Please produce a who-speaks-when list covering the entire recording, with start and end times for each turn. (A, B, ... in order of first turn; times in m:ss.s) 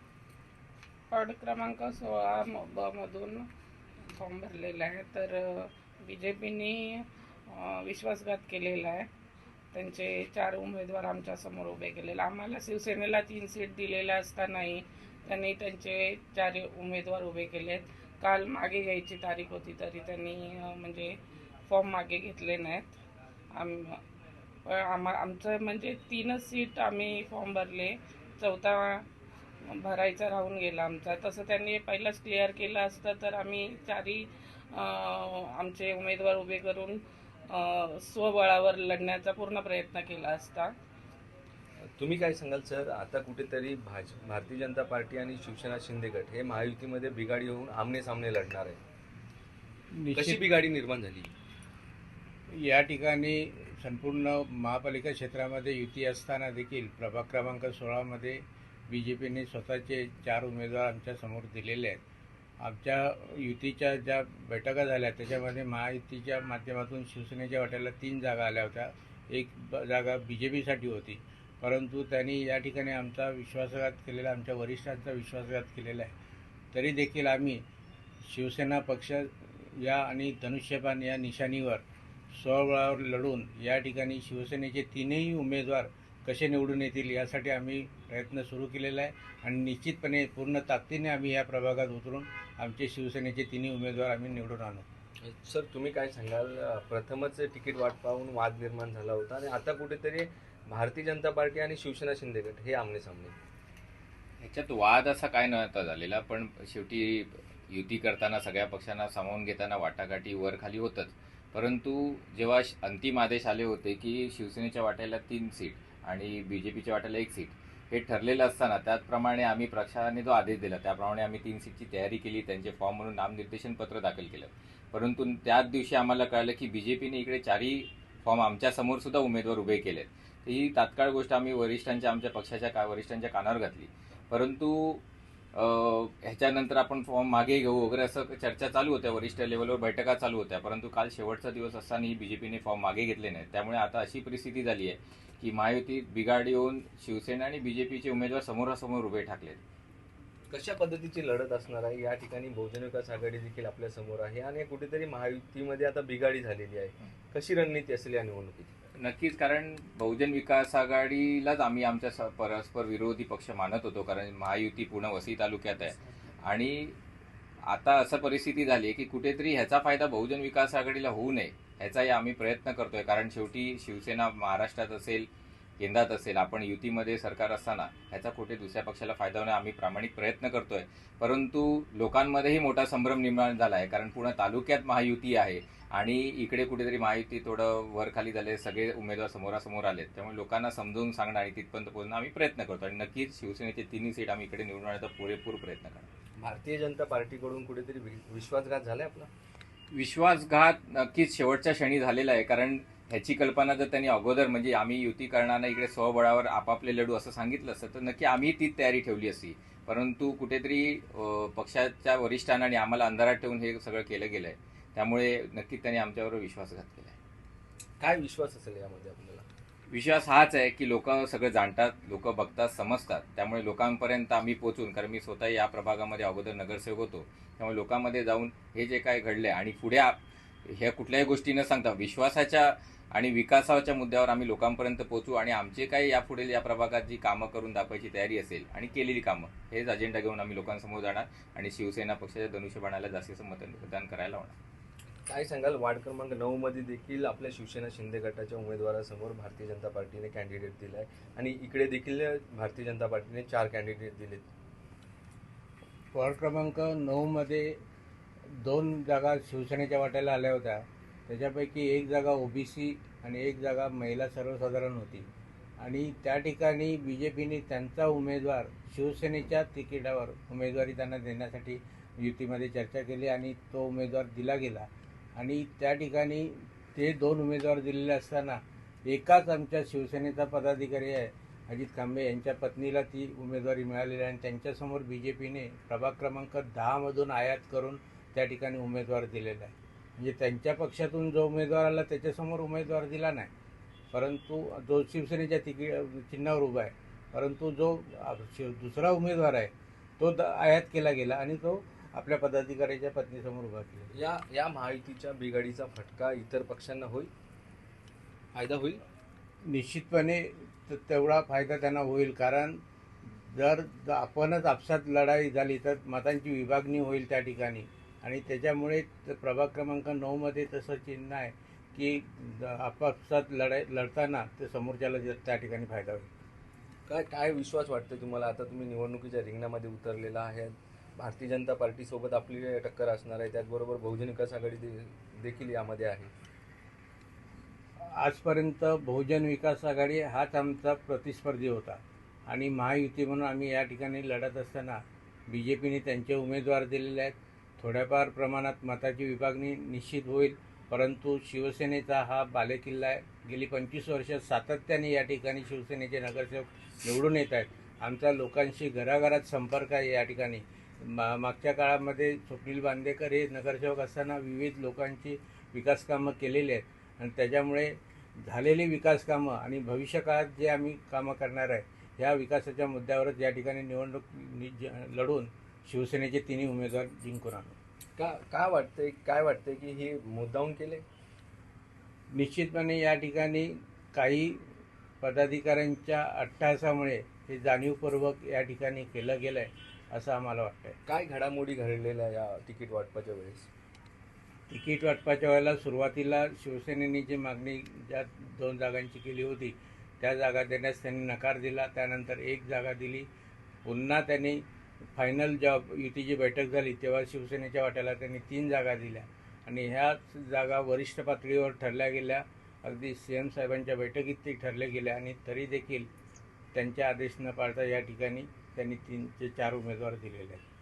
0:01.1-0:03.5 A
0:04.1-0:09.1 A
0:09.7-0:21.1 A
0:21.7-0:22.9 A
0:23.5-0:24.0 A
0:24.7-0:29.0 A
0:29.6-0:40.7 A
0:42.0-0:48.8 B
0:50.0-0:50.4 C
0:50.1-0:51.3 B
0:52.5-1:02.0 C
1:02.6-1:16.1 C
1:16.7-1:17.6 C
1:18.2-1:34.8 C
1:35.2-1:43.3 B
1:44.4-2:15.0 D
2:15.5-2:29.6 D
2:30.5-2:38.7 B
2:39.0-2:47.0 D
2:47.7-2:55.3 D
2:55.8-3:16.1 D
3:16.4-3:19.3 B
3:19.9-3:37.2 D
3:38.0-3:39.4 B
3:39.9-4:04.6 D
4:05.3-4:14.5 B
4:16.1-4:17.8 C
4:18.6-4:25.3 C
4:25.8-4:53.5 C
4:54.1-5:04.1 C
5:04.1-5:07.3 B
5:08.5-5:09.0 B
5:09.7-5:26.3 C
5:27.1-5:36.3 B
5:38.0-6:17.8 C
6:18.2-6:21.0 B
6:22.3-6:24.6 C
6:25.2-6:31.0 C
6:31.1-6:33.7 B
6:34.7-6:43.3 C
6:43.8-6:44.6 C
6:45.2-6:56.1 C
6:56.7-7:00.6 C